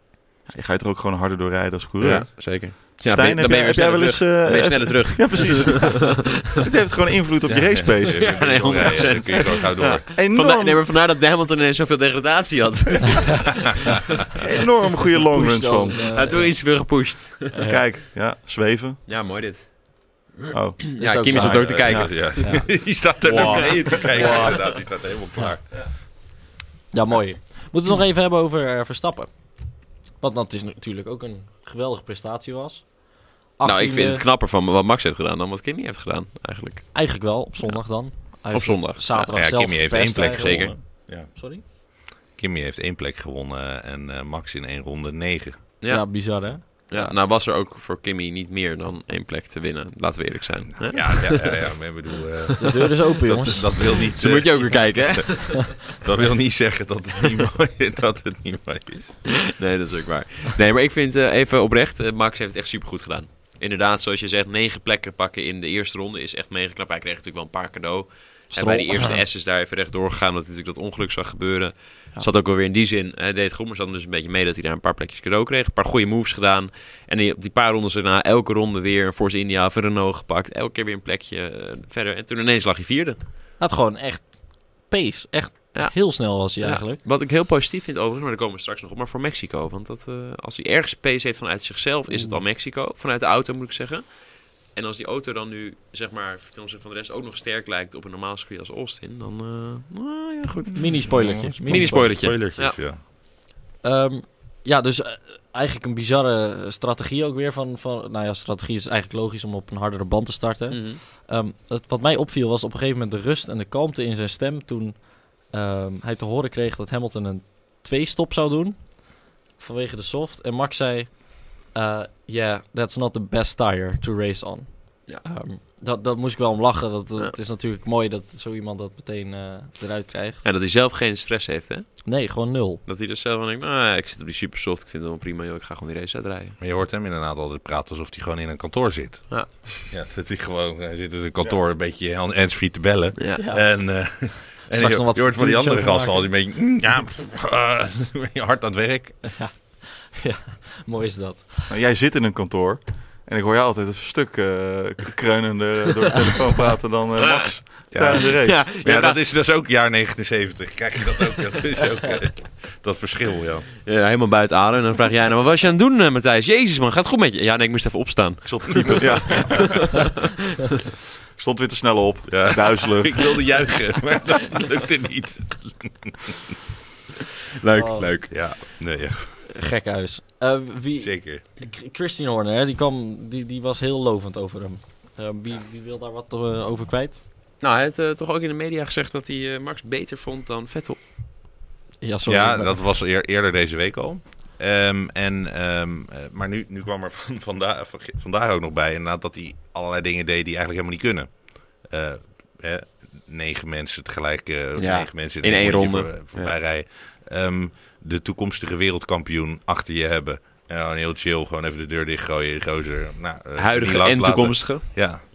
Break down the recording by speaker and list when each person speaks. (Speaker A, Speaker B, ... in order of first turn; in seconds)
Speaker A: 0.5-9.4, 10.0-10.8, 14.3-16.4, 17.6-19.0, 20.5-22.4, 151.7-158.7, 168.8-170.1, 171.3-173.4
Speaker B: 2.0-6.2, 8.0-13.6, 16.1-17.6, 19.1-20.3, 20.9-22.6, 23.2-24.8, 33.6-39.4, 40.1-40.8, 45.8-52.7, 54.0-55.9, 59.4-83.2, 85.7-102.8, 110.7-111.0, 130.4-132.1, 132.8-136.6, 143.2-143.4, 158.1-159.2, 163.8-170.1, 177.6-178.5, 187.6-191.0, 204.8-206.5, 213.6-214.8
Speaker C: 7.7-10.1, 21.4-25.8, 39.3-45.7, 50.8-59.4, 100.8-103.0, 136.6-149.4, 157.9-163.7, 168.5-169.6, 172.3-176.3, 178.3-179.5, 181.0-181.4, 192.2-215.2
Speaker D: 15.3-16.9, 17.5-17.8, 21.0-22.7, 23.3-24.8, 26.9-34.2, 36.9-41.6, 45.9-47.2, 52.6-53.9, 68.5-69.2, 83.6-87.0, 92.1-92.4, 100.8-102.3, 103.8-130.4, 132.1-132.8, 143.3-143.7, 144.7-146.3, 149.3-151.7, 177.7-178.4, 179.4-187.2, 192.0-192.8